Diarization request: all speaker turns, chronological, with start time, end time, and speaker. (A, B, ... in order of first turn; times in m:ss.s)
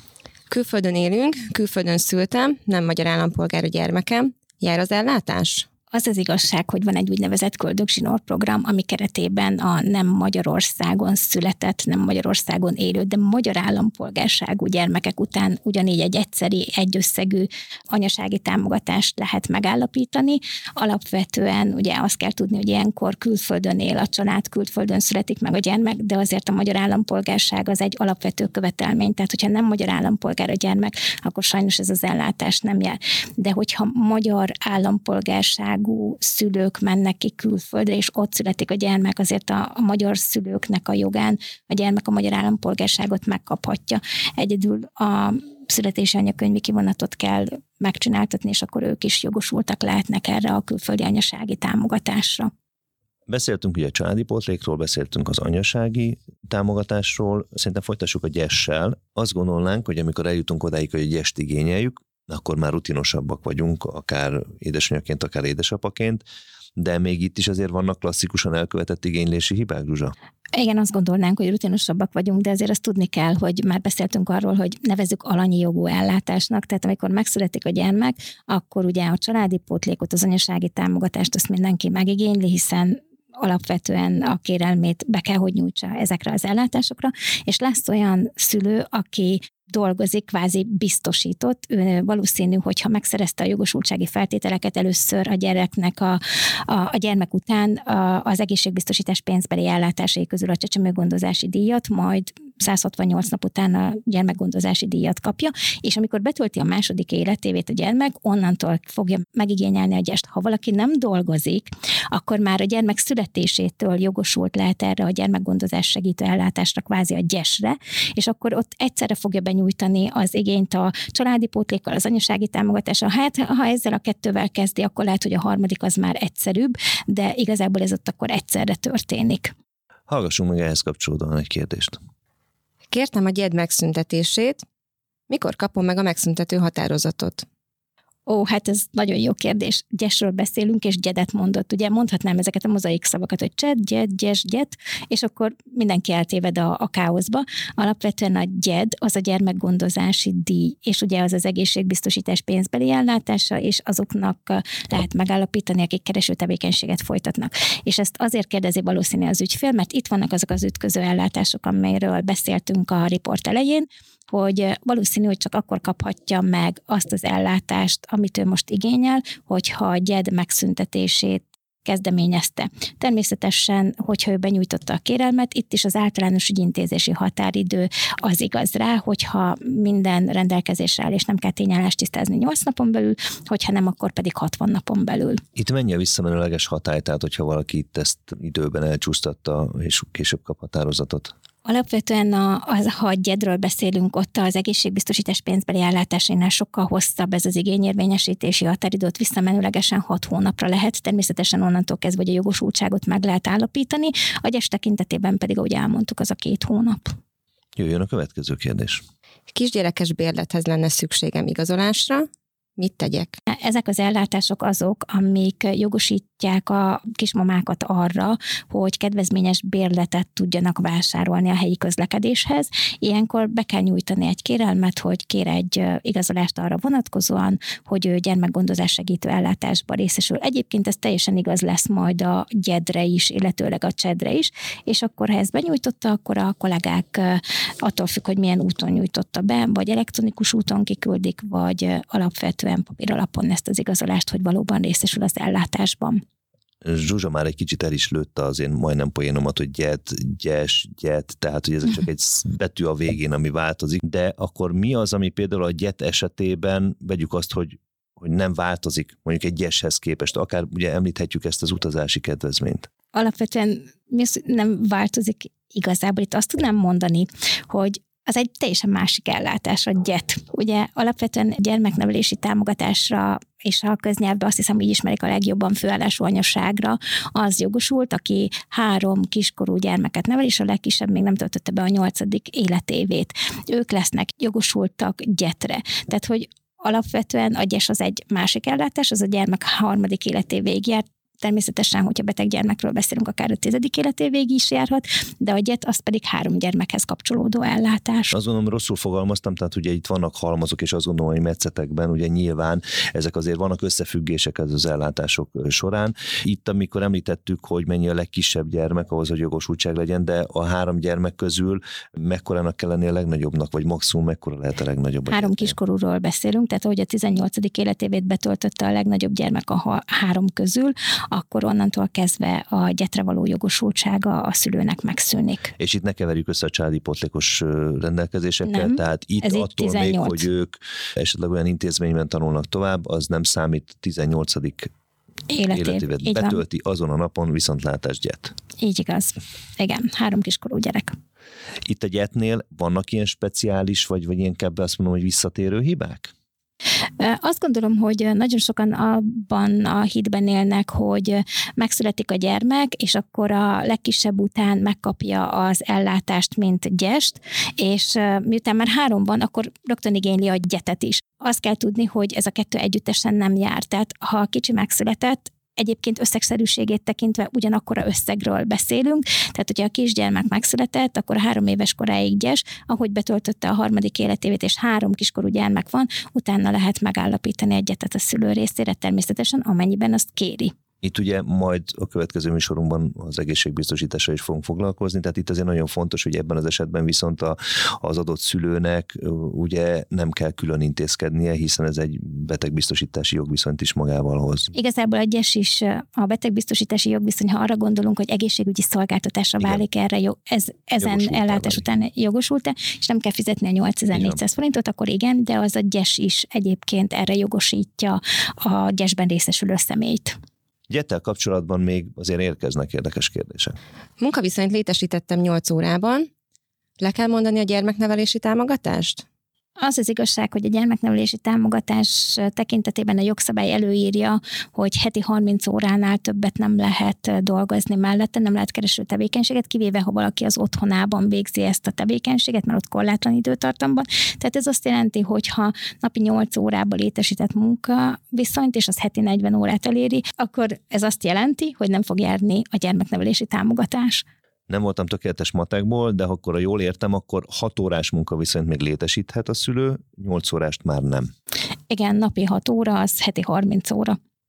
0:00.5-0:05.7 A
0:05.9-0:52.5 B
0:53.3-1:06.2 C
1:06.8-1:10.1 C
1:10.5-2:09.5 B
2:10.1-2:12.0 C
2:12.9-2:14.6 A
2:15.3-2:17.4 A
2:18.3-3:05.4 B
3:05.6-3:11.3 C
3:11.6-3:27.2 B
3:27.8-3:29.0 C
3:29.5-3:33.4 A
3:33.5-4:06.2 B
4:06.8-4:22.9 C
4:23.1-4:58.3 B
4:58.3-5:15.7 C
5:15.3-5:25.7 B
5:25.8-5:34.9 C
5:28.6-5:30.4 B
5:35.5-5:36.6 B
5:35.7-5:38.5 C
5:38.8-5:41.2 B
5:41.8-5:46.3 C
5:47.2-6:20.7 B
6:21.0-6:34.7 C
6:34.7-6:50.4 B
6:41.0-6:41.8 C
6:44.1-6:44.4 C
6:50.9-6:53.8 C
6:54.2-6:56.3 A
6:57.0-6:59.2 A
6:59.8-7:24.2 B
7:24.7-7:31.3 C
7:31.9-7:34.2 B